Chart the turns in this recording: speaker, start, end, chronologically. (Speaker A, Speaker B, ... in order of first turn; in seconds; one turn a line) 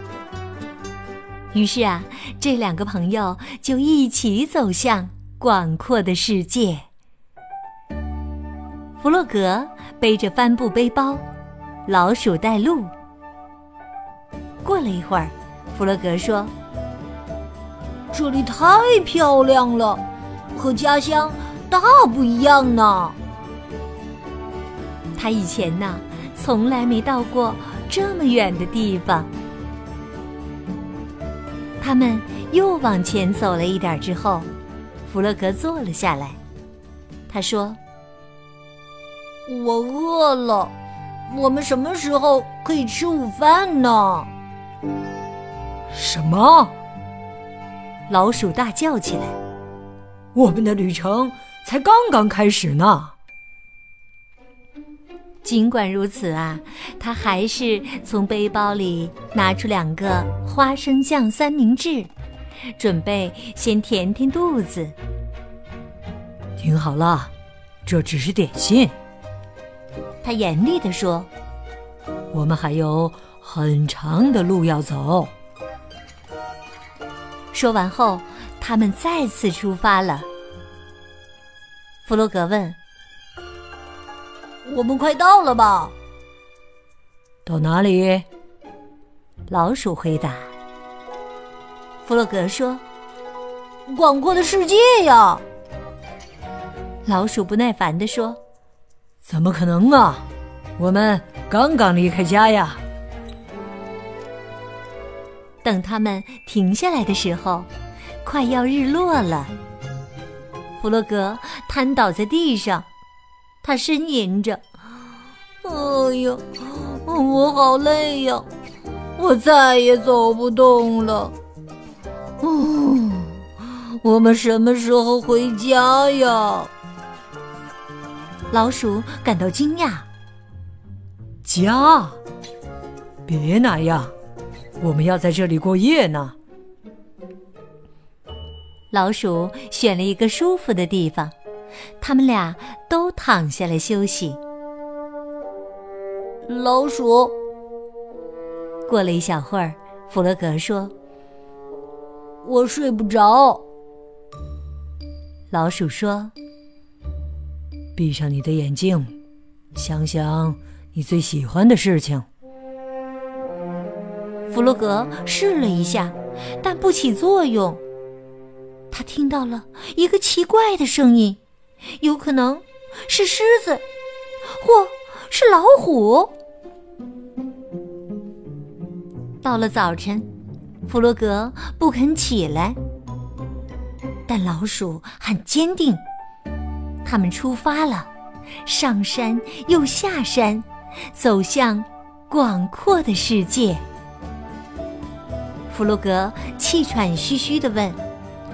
Speaker A: 1.5-6.9
Speaker A: 9.0-11.2
Speaker A: 11.9-12.9
Speaker A: 14.6-16.5
Speaker B: 18.1-20.0
Speaker B: 20.5-23.2
Speaker A: 25.1-29.3
Speaker A: 31.8-34.5
Speaker A: 35.1-36.4
Speaker A: 37.3-37.8
Speaker B: 39.5-40.7
Speaker B: 41.3-44.3
Speaker C: 45.9-46.7
Speaker A: 48.1-49.4
Speaker C: 50.4-53.1
Speaker A: 55.4-62.1
Speaker A: 62.8-65.0
Speaker C: 66.6-67.3
Speaker C: 67.9-69.0
Speaker A: 70.2-71.3
Speaker C: 72.3-75.3
Speaker A: 77.5-80.3
Speaker A: 82.0-82.8
Speaker B: 84.7-85.9
Speaker C: 87.5-88.2
Speaker A: 89.5-90.5
Speaker A: 92.0-92.8
Speaker B: 93.9-95.4
Speaker A: 97.0-98.4
Speaker C: 99.3-100.2
Speaker C: 100.8-102.8
Speaker A: 105.6-107.7
Speaker A: 108.2-109.5
Speaker A: 110.8-112.9
Speaker A: 113.6-114.6
Speaker B: 115.6-118.5
Speaker B: 119.2-121.3
Speaker A: 122.8-123.2
Speaker B: 124.0-126.7
Speaker A: 128.5-130.1
Speaker C: 131.4-132.2
Speaker C: 133.3-134.1
Speaker C: 134.8-136.3
Speaker A: 138.9-141.3
Speaker A: 142.0-144.4
Speaker B: 146.4-147.3
Speaker A: 148.9-150.9
Speaker B: 152.4-153.6
Speaker A: 155.5-156.3
Speaker C: 158.0-159.1
Speaker C: 159.8-162.3
Speaker A: 164.5-167.8
Speaker A: 168.9-171.4
Speaker A: 172.0-173.8
Speaker A: 174.6-176.3
Speaker A: 179.4-180.3
Speaker A: 180.9-182.8
Speaker A: 184.3-186.0
Speaker A: 187.1-188.1
Speaker A: 188.7-193.8
Speaker A: 195.7-198.0